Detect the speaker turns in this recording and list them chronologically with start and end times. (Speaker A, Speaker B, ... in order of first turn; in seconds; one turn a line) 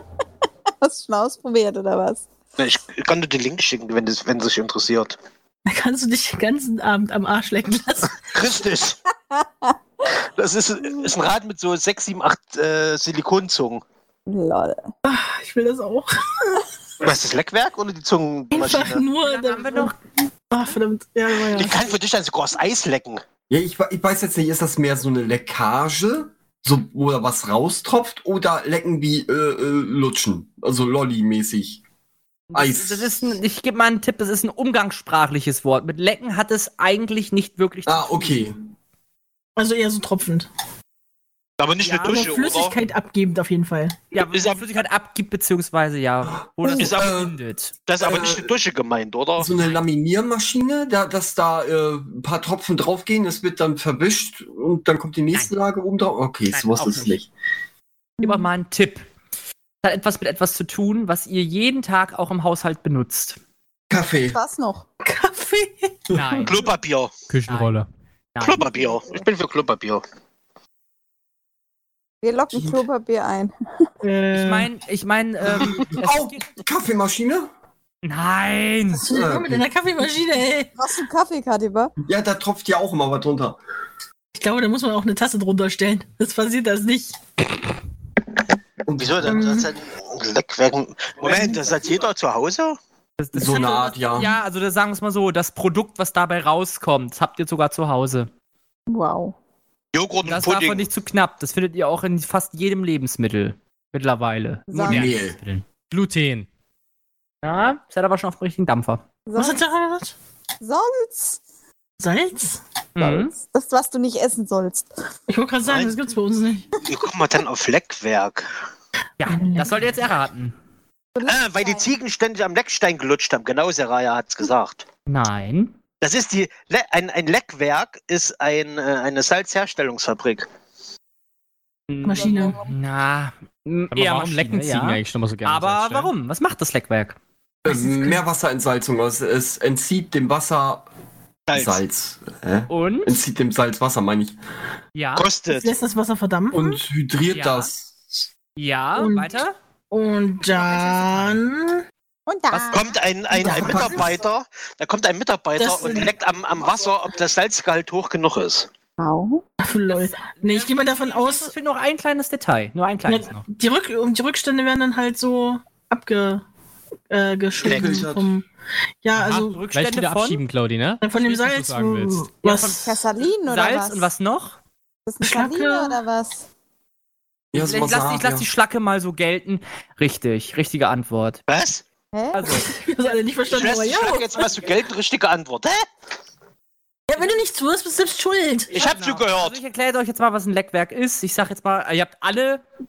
Speaker A: 0.8-2.2
Speaker B: 2.6-5.2
Speaker C: 5.7-8.1
Speaker B: 8.3-9.0
Speaker A: 9.3-9.8
Speaker B: 10.4-13.8
Speaker A: 10.8-11.1
Speaker A: 14.3-14.9
Speaker C: 15.0-16.6
Speaker B: 17.0-19.0
Speaker C: 18.5-19.9
Speaker D: 19.2-19.9
Speaker C: 20.5-21.8
Speaker B: 21.5-23.2
Speaker E: 23.5-31.8
Speaker D: 32.5-38.5
Speaker E: 32.5-33.2
Speaker E: 37.9-38.5
Speaker C: 39.6-40.5
Speaker B: 41.6-42.8
Speaker D: 41.8-42.4
Speaker C: 42.0-44.0
Speaker D: 44.1-47.7
Speaker B: 44.3-44.7
Speaker E: 46.3-47.3
Speaker B: 46.8-47.2
Speaker B: 47.9-49.5
Speaker E: 48.0-48.5
Speaker E: 49.4-57.3
Speaker D: 56.5-57.2
Speaker D: 58.2-59.1
Speaker D: 59.8-63.4
Speaker E: 63.9-64.4
Speaker A: 64.3-64.8
Speaker C: 65.0-66.0
Speaker D: 66.1-66.6
Speaker B: 66.4-67.1
Speaker F: 67.3-67.9
Speaker D: 67.5-67.8
Speaker D: 68.3-68.6
Speaker B: 68.4-70.0
Speaker A: 68.6-69.2
Speaker A: 72.2-73.9
Speaker C: 74.0-74.7
Speaker D: 74.3-76.5
Speaker E: 75.4-77.5
Speaker D: 78.0-79.0
Speaker C: 78.9-80.7
Speaker E: 79.0-79.7
Speaker A: 80.8-81.9
Speaker E: 82.0-83.6
Speaker C: 84.3-87.2
Speaker E: 88.8-89.6
Speaker B: 88.9-92.8
Speaker C: 89.2-89.7
Speaker A: 91.3-91.6
Speaker D: 93.2-98.3
Speaker E: 93.3-94.3
Speaker A: 98.9-99.3
Speaker B: 99.9-100.9
Speaker D: 100.2-105.7
Speaker A: 104.7-105.2
Speaker E: 104.7-105.4
Speaker F: 105.9-106.5
Speaker D: 107.4-109.0
Speaker A: 109.3-109.6
Speaker C: 109.3-110.1
Speaker A: 110.6-111.4
Speaker C: 112.0-112.6
Speaker D: 113.0-113.3
Speaker A: 113.0-114.9
Speaker C: 115.3-116.7
Speaker B: 115.6-115.9
Speaker B: 116.8-118.5
Speaker D: 119.2-120.5
Speaker C: 119.2-119.9
Speaker A: 121.1-121.9
Speaker B: 121.2-124.8
Speaker D: 125.0-125.8
Speaker B: 126.0-130.5
Speaker D: 131.9-137.2
Speaker C: 132.0-132.6
Speaker A: 132.1-132.7
Speaker F: 133.9-136.1
Speaker E: 137.6-140.9
Speaker C: 137.7-138.2
Speaker B: 141.5-141.8
Speaker E: 141.5-144.4
Speaker D: 142.7-143.1
Speaker D: 144.9-145.3
Speaker B: 145.2-145.7
Speaker C: 145.5-146.8
Speaker E: 146.5-148.2
Speaker D: 147.3-147.7
Speaker D: 148.6-149.6
Speaker C: 148.9-149.3
Speaker C: 149.9-151.8
Speaker A: 152.3-152.8
Speaker B: 152.7-158.7
Speaker C: 153.3-154.2
Speaker C: 155.6-156.1
Speaker A: 159.0-159.4
Speaker C: 159.6-161.5
Speaker D: 160.3-163.4
Speaker C: 163.1-166.4
Speaker C: 167.1-168.4
Speaker E: 167.6-168.3
Speaker B: 167.6-168.0
Speaker C: 169.0-169.6
Speaker D: 169.1-170.4
Speaker F: 169.7-172.3
Speaker C: 171.0-172.8
Speaker D: 172.4-172.9
Speaker A: 172.7-174.1
Speaker D: 173.4-174.6
Speaker A: 175.1-176.4
Speaker C: 175.2-176.0
Speaker E: 177.5-178.5
Speaker D: 177.5-181.4
Speaker B: 181.5-181.8
Speaker A: 182.1-182.6
Speaker D: 182.3-182.8
Speaker C: 182.7-184.5
Speaker B: 183.5-185.8
Speaker C: 187.1-188.8
Speaker B: 188.7-189.6
Speaker D: 188.7-192.6